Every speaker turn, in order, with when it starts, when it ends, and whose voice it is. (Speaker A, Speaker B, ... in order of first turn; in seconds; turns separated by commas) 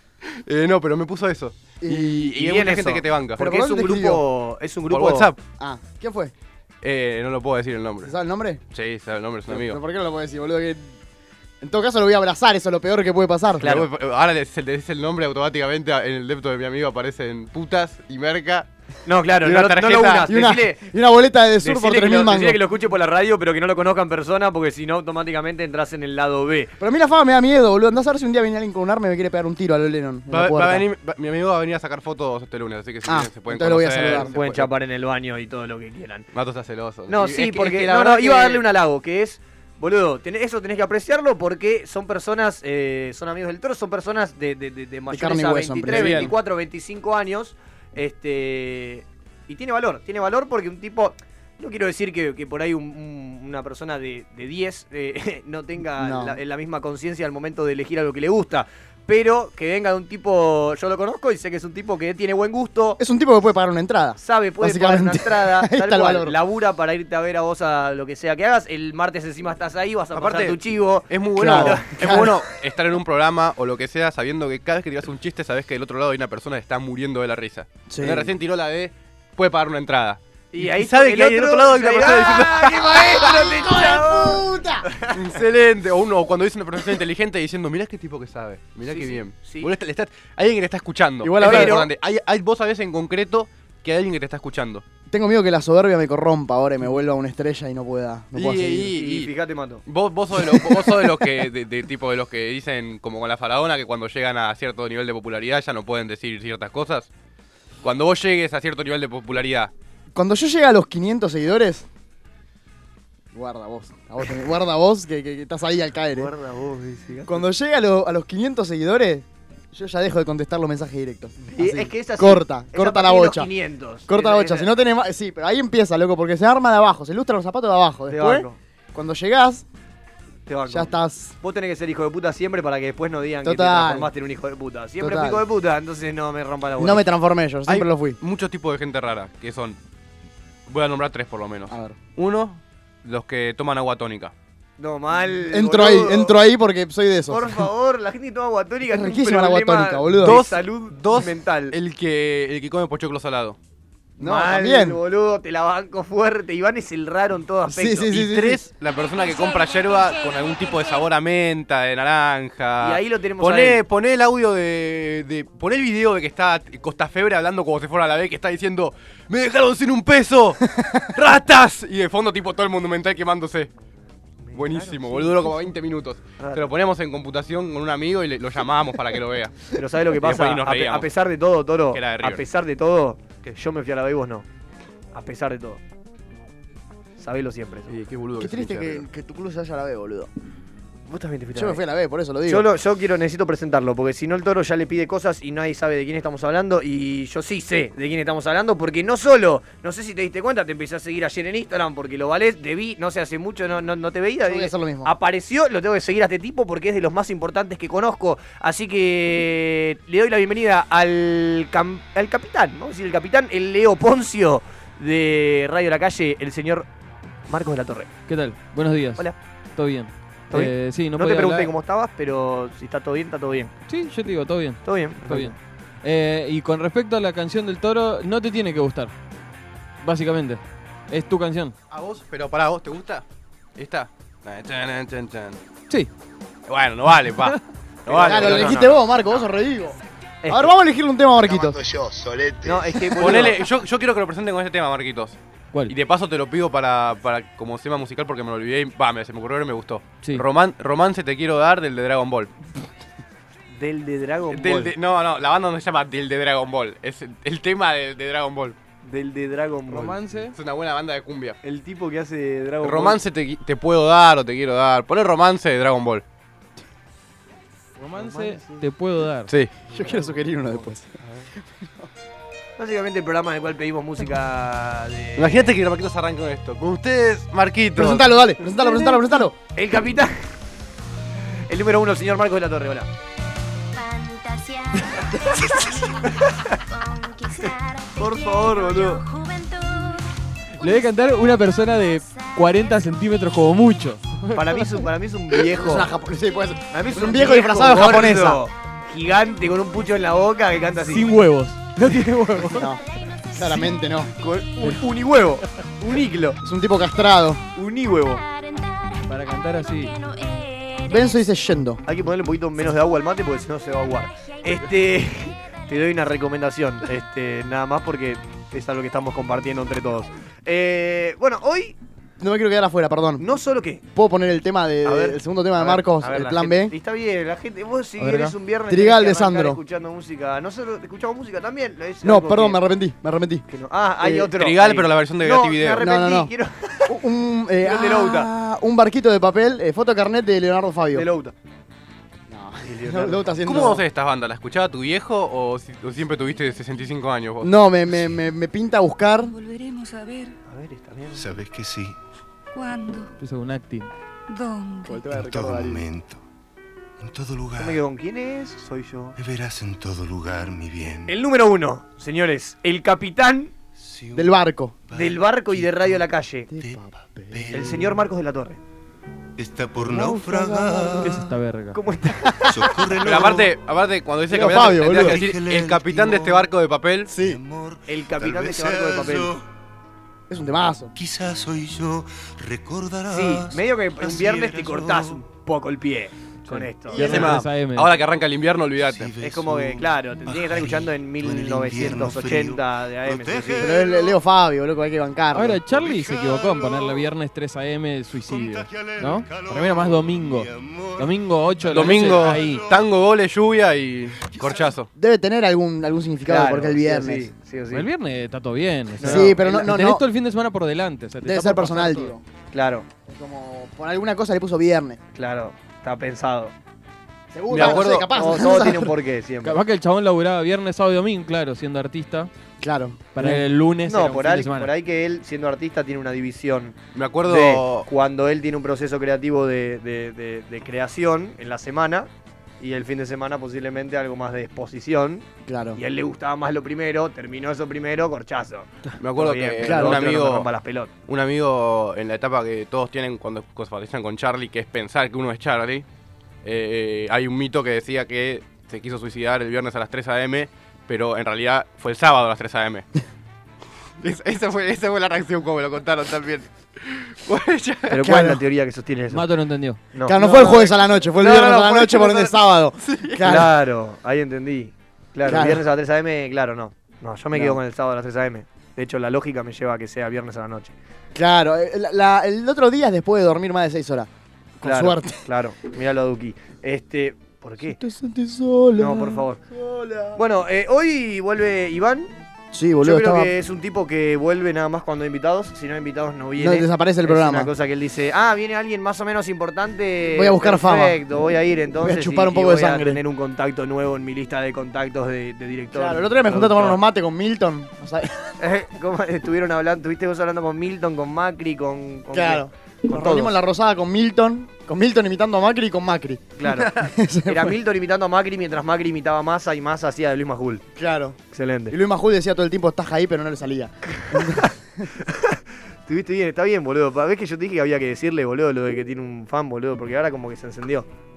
Speaker A: 0.2-3.4, Speaker B: 1.8-2.3, Speaker C: 2.4-5.3, Speaker B: 3.4-4.2, Speaker A: 4.9-5.4, Speaker B: 5.6-6.3, Speaker A: 6.8-8.1, Speaker B: 8.0-8.6, Speaker A: 8.7-9.8, Speaker B: 9.5-10.9, Speaker B: 11.6-13.7, Speaker C: 13.6-13.9, Speaker A: 13.6-18.7, Speaker C: 19.1-20.8, Speaker A: 19.4-20.3, Speaker B: 20.2-22.6, Speaker C: 21.6-26.7, Speaker B: 26.8-30.9, Speaker A: 30.3-34.7, Speaker B: 33.0-34.3, Speaker C: 34.0-36.2, Speaker A: 36.3-38.6, Speaker C: 37.1-63.0, Speaker B: 45.1-46.3, Speaker A: 45.9-46.3, Speaker B: 56.0-56.4, Speaker B: 63.0-66.4, Speaker C: 64.2-72.3, Speaker A: 70.1-83.3, Speaker B: 71.3-72.3, Speaker B: 77.9-78.3, Speaker C: 80.5-85.2, Speaker B: 83.2-84.8, Speaker A: 85.1-94.8, Speaker C: 88.8-89.7, Speaker B: 91.2-91.8, Speaker C: 91.4-91.9, Speaker B: 95.1-98.9, Speaker A: 98.3-99.3, Speaker C: 99.0-99.8, Speaker A: 99.8-107.1, Speaker B: 100.5-101.1, Speaker A: 107.8-109.7, Speaker B: 110.1-111.8, Speaker B: 113.3-116.3, Speaker C: 116.1-117.5, Speaker B: 117.3-123.5, Speaker C: 121.4-124.7, Speaker B: 124.1-129.6, Speaker C: 128.1-128.6, Speaker C: 130.5-137.0, Speaker B: 130.7-131.3, Speaker B: 133.4-134.1, Speaker B: 135.0-135.4, Speaker B: 136.8-138.2, Speaker A: 137.7-139.8, Speaker A: 140.7-144.3, Speaker B: 141.7-142.0, Speaker C: 144.8-146.3, Speaker B: 145.5-147.6, Speaker C: 147.3-151.7, Speaker B: 148.9-150.4, Speaker A: 150.2-153.6, Speaker B: 154.2-155.0, Speaker C: 154.2-158.1, Speaker B: 157.7-158.6, Speaker A: 158.1-173.7, Speaker C: 162.8-163.8, Speaker C: 174.4-175.7, Speaker A: 174.5-181.1, Speaker C: 176.4-176.7, Speaker C: 179.7-184.4, Speaker A: 181.9-182.4, Speaker C: 185.1-185.8, Speaker C: 187.2-187.9, Speaker A: 187.9-189.0, Speaker B: 188.4-190.3, Speaker C: 191.1-191.8, Speaker B: 191.5-192.7, Speaker C: 192.4-216.9, Speaker B: 204.4-205.1, Speaker C: 217.5-218.1, Speaker D: 218.3-221.7, Speaker C: 220.5-223.7, Speaker D: 223.9-229.1, Speaker C: 224.8-225.6, Speaker D: 230.0-231.7, Speaker A: 231.9-233.2, Speaker A: 233.8-235.6, Speaker A: 236.7-238.8, Speaker D: 237.3-237.6, Speaker C: 238.1-239.1, Speaker B: 238.2-240.0, Speaker C: 240.4-240.7, Speaker B: 240.5-241.8, Speaker C: 242.6-243.6, Speaker A: 243.2-245.4, Speaker A: 245.9-252.5, Speaker C: 253.7-254.9, Speaker A: 254.5-258.8, Speaker C: 259.0-260.2, Speaker D: 259.9-260.5, Speaker A: 260.5-261.6, Speaker C: 261.6-263.2, Speaker A: 262.8-266.2, Speaker D: 268.0-269.5, Speaker C: 268.1-268.8, Speaker A: 269.5-269.7, Speaker B: 269.9-272.1, Speaker C: 272.8-275.7, Speaker A: 275.4-278.3, Speaker B: 277.9-279.5, Speaker C: 279.7-280.4, Speaker C: 281.7-283.1, Speaker E: 283.9-290.3, Speaker C: 288.1-289.2, Speaker D: 290.8-295.0, Speaker C: 294.5-296.1, Speaker B: 295.7-298.6, Speaker C: 296.9-301.3, Speaker D: 301.1-302.9, Speaker B: 302.6-303.0, Speaker B: 303.5-304.3, Speaker C: 304.4-306.6, Speaker B: 306.6-307.6, Speaker C: 307.7-308.4, Speaker E: 308.5-309.2, Speaker D: 309.3-310.1, Speaker E: 310.0-311.2, Speaker B: 311.1-312.0, Speaker C: 312.0-321.9, Speaker B: 322.4-323.4, Speaker C: 323.4-324.0, Speaker B: 324.1-326.9, Speaker C: 325.0-332.8, Speaker D: 328.2-328.5, Speaker B: 328.9-329.8, Speaker B: 332.2-333.6, Speaker C: 333.7-337.1, Speaker B: 334.2-334.5, Speaker A: 334.6-336.1, Speaker B: 336.0-336.5, Speaker B: 337.1-341.3, Speaker C: 337.8-338.5, Speaker C: 341.1-341.5, Speaker B: 342.5-344.0, Speaker C: 342.8-343.5, Speaker A: 343.6-347.7, Speaker B: 347.6-349.5, Speaker F: 349.4-350.6, Speaker C: 350.6-351.6, Speaker G: 351.3-352.2, Speaker F: 352.7-353.3, Speaker D: 353.4-354.1, Speaker F: 354.5-355.3, Speaker B: 355.0-356.0, Speaker G: 355.3-356.4, Speaker G: 357.2-358.0, Speaker C: 357.8-359.4, Speaker G: 359.4-361.4, Speaker C: 361.3-363.7, Speaker G: 363.9-364.6, Speaker B: 364.3-364.9, Speaker G: 365.1-368.3, Speaker C: 365.1-366.7, Speaker B: 366.7-367.9, Speaker C: 367.7-368.8, Speaker G: 369.6-371.5, Speaker B: 370.0-371.4, Speaker D: 371.2-372.0, Speaker C: 371.9-373.6, Speaker G: 372.6-373.7, Speaker A: 373.2-377.3, Speaker B: 374.5-375.4, Speaker G: 375.0-376.7, Speaker B: 377.3-377.6, Speaker G: 377.3-379.7, Speaker C: 378.1-379.5, Speaker B: 380.5-381.1, Speaker G: 381.1-385.4, Speaker C: 383.3-387.5, Speaker D: 386.7-388.2, Speaker A: 387.1-389.3, Speaker G: 389.0-394.4, Speaker C: 389.4-394.0, Speaker B: 393.8-395.8, Speaker D: 395.5-402.8, Speaker G: 395.9-397.3, Speaker G: 398.4-403.1, Speaker A: 401.9-405.1, Speaker G: 404.4-404.9, Speaker B: 405.1-407.5, Speaker C: 406.4-408.1, Speaker D: 407.9-412.3, Speaker C: 409.2-409.8, Speaker B: 409.2-410.2, Speaker B: 411.4-412.4, Speaker C: 412.7-413.1, Speaker B: 413.3-415.2, Speaker C: 415.3-416.7, Speaker B: 417.5-419.1, Speaker A: 417.7-418.3, Speaker C: 417.7-419.8, Speaker D: 419.6-422.5, Speaker B: 422.8-423.6, Speaker D: 423.3-424.9, Speaker C: 424.1-432.3, Speaker A: 427.1-428.1, Speaker C: 432.8-441.1, Speaker B: 435.6-436.0, Speaker A: 439.2-440.7, Speaker B: 439.8-440.2, Speaker A: 441.3-446.0, Speaker A: 446.6-453.1, Speaker A: 454.2-458.2, Speaker C: 458.1-459.5, Speaker B: 458.2-458.6, Speaker D: 459.3-460.0, Speaker C: 460.1-462.5, Speaker B: 460.2-463.7, Speaker A: 463.0-463.4, Speaker C: 463.4-470.9, Speaker B: 465.4-465.8, Speaker B: 467.5-467.8, Speaker B: 471.3-475.4, Speaker C: 474.8-478.0, Speaker B: 477.9-480.4, Speaker C: 479.0-479.6, Speaker C: 480.3-482.3, Speaker B: 482.7-483.5, Speaker C: 483.0-497.0, Speaker B: 486.6-487.7, Speaker B: 490.3-491.2, Speaker B: 492.0-493.2, Speaker B: 495.9-498.5, Speaker C: 498.6-503.5, Speaker B: 502.3-507.8, Speaker C: 506.6-510.8, Speaker B: 510.9-511.4, Speaker C: 511.5-511.9, Speaker B: 511.9-515.1, Speaker C: 515.2-521.1